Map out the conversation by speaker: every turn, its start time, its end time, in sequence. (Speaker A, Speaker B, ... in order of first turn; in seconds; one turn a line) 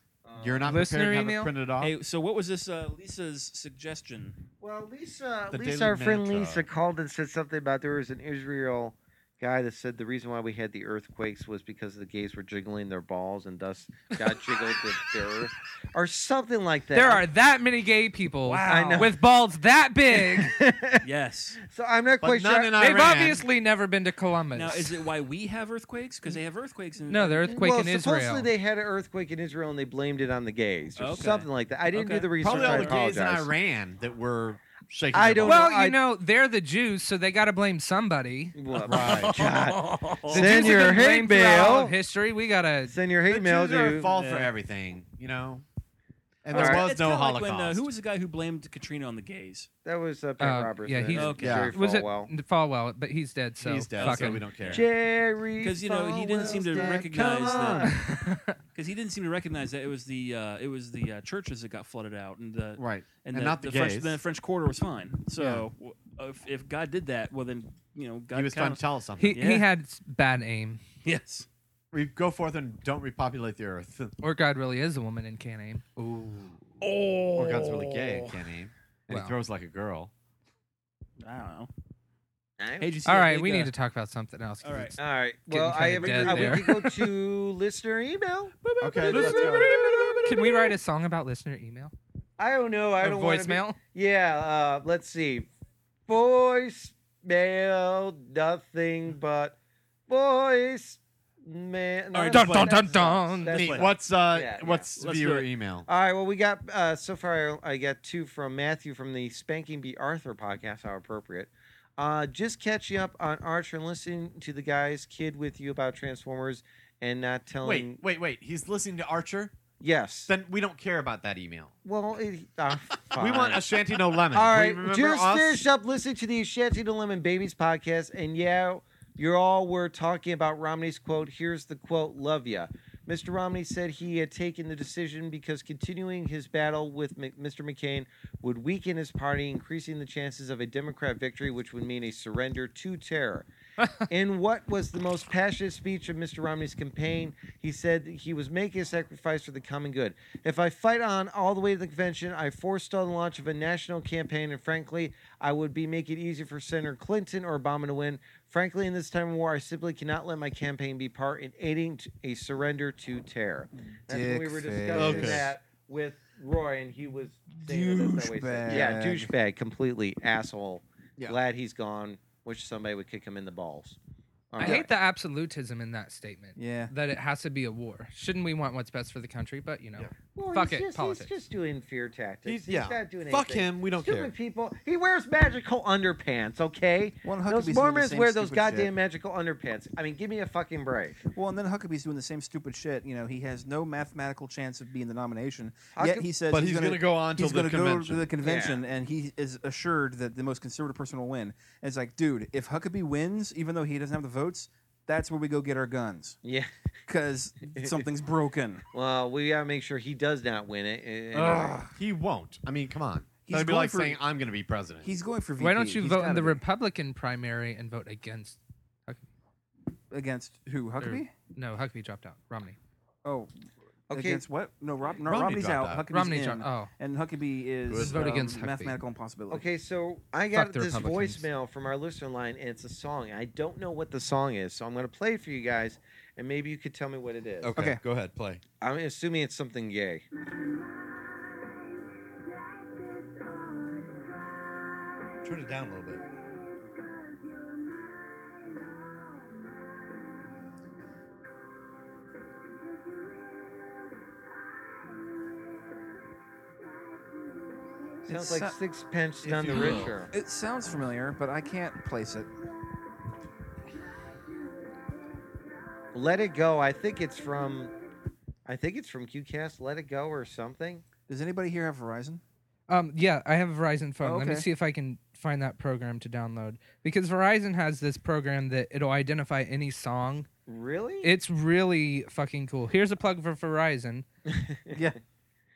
Speaker A: 0.2-0.8
Speaker B: 0.4-1.9
Speaker C: 0.7-1.5
Speaker D: 1.8-4.4
Speaker A: 4.6-17.3
Speaker B: 5.5-6.7
Speaker C: 16.9-20.6
Speaker D: 18.5-19.1
Speaker A: 18.6-19.2
Speaker A: 20.1-21.0
Speaker D: 21.0-21.6
Speaker A: 21.6-23.1
Speaker B: 22.2-23.4
Speaker C: 22.8-24.9
Speaker D: 24.5-27.6
Speaker C: 27.1-28.5
Speaker A: 27.5-33.5
Speaker D: 31.0-33.0
Speaker B: 32.4-35.6
Speaker A: 35.1-36.0
Speaker C: 35.4-38.5
Speaker A: 38.5-41.9
Speaker D: 38.8-41.0
Speaker B: 38.9-39.5
Speaker C: 40.3-43.0
Speaker A: 42.9-44.1
Speaker B: 43.3-45.6
Speaker D: 44.1-44.5
Speaker B: 46.4-47.9
Speaker D: 46.5-49.7
Speaker A: 46.5-46.9
Speaker A: 49.9-52.3
Speaker C: 50.4-54.4
Speaker D: 51.1-51.7
Speaker B: 51.4-51.7
Speaker B: 53.6-54.9
Speaker D: 54.0-54.9
Speaker A: 54.7-57.9
Speaker D: 55.6-58.0
Speaker B: 56.4-57.9
Speaker C: 57.9-58.6
Speaker D: 58.7-69.7
Speaker B: 62.8-64.2
Speaker B: 68.3-69.5
Speaker C: 69.2-70.8
Speaker D: 71.0-71.5
Speaker B: 71.9-74.1
Speaker C: 74.2-76.6
Speaker D: 76.8-78.5
Speaker B: 77.4-80.1
Speaker C: 79.1-79.4
Speaker D: 81.2-81.7
Speaker A: 82.6-83.0
Speaker D: 82.8-83.7
Speaker C: 83.0-85.0
Speaker D: 84.6-85.0
Speaker A: 85.0-90.2
Speaker C: 85.5-86.8
Speaker D: 85.7-86.9
Speaker D: 88.6-90.7
Speaker B: 88.8-89.7
Speaker C: 90.2-91.9
Speaker A: 92.4-95.5
Speaker C: 93.0-93.8
Speaker A: 96.1-99.6
Speaker A: 100.1-104.9
Speaker D: 102.1-103.9
Speaker C: 102.3-103.6
Speaker B: 103.5-105.9
Speaker D: 104.9-105.5
Speaker A: 105.9-118.0
Speaker B: 117.6-119.5
Speaker A: 119.8-120.3
Speaker B: 120.3-121.7
Speaker A: 121.8-123.7
Speaker B: 123.1-125.6
Speaker A: 124.3-143.5
Speaker A: 144.1-174.0
Speaker E: 164.1-165.5
Speaker B: 164.9-165.5
Speaker E: 167.5-169.3
Speaker A: 174.5-174.9
Speaker C: 174.6-181.3
Speaker E: 176.6-176.9
Speaker A: 180.3-191.2
Speaker B: 182.5-184.3
Speaker E: 187.2-188.9
Speaker E: 191.3-206.4
Speaker A: 195.9-196.2
Speaker B: 196.5-198.3
Speaker A: 198.4-198.8
Speaker A: 206.4-206.7
Speaker E: 207.1-208.8
Speaker A: 208.9-211.9
Speaker B: 211.4-215.1
Speaker E: 213.4-214.2
Speaker E: 215.0-216.6
Speaker C: 215.6-219.3
Speaker E: 220.1-221.3
Speaker C: 221.0-222.8
Speaker E: 223.2-223.5
Speaker A: 224.1-224.4
Speaker E: 224.1-229.7
Speaker B: 225.2-226.1
Speaker C: 226.1-226.9
Speaker B: 227.9-228.3
Speaker C: 227.9-229.0
Speaker A: 229.5-237.7
Speaker C: 230.5-231.5
Speaker B: 237.6-238.6
Speaker A: 238.8-240.2
Speaker B: 245.4-246.2
Speaker A: 258.2-260.3
Speaker E: 258.3-258.8
Speaker E: 259.4-262.5
Speaker A: 266.1-267.9
Speaker A: 268.7-271.0
Speaker E: 271.3-272.4
Speaker C: 272.9-280.5
Speaker E: 274.2-274.7
Speaker A: 280.7-281.3
Speaker C: 281.2-284.2
Speaker A: 284.5-285.1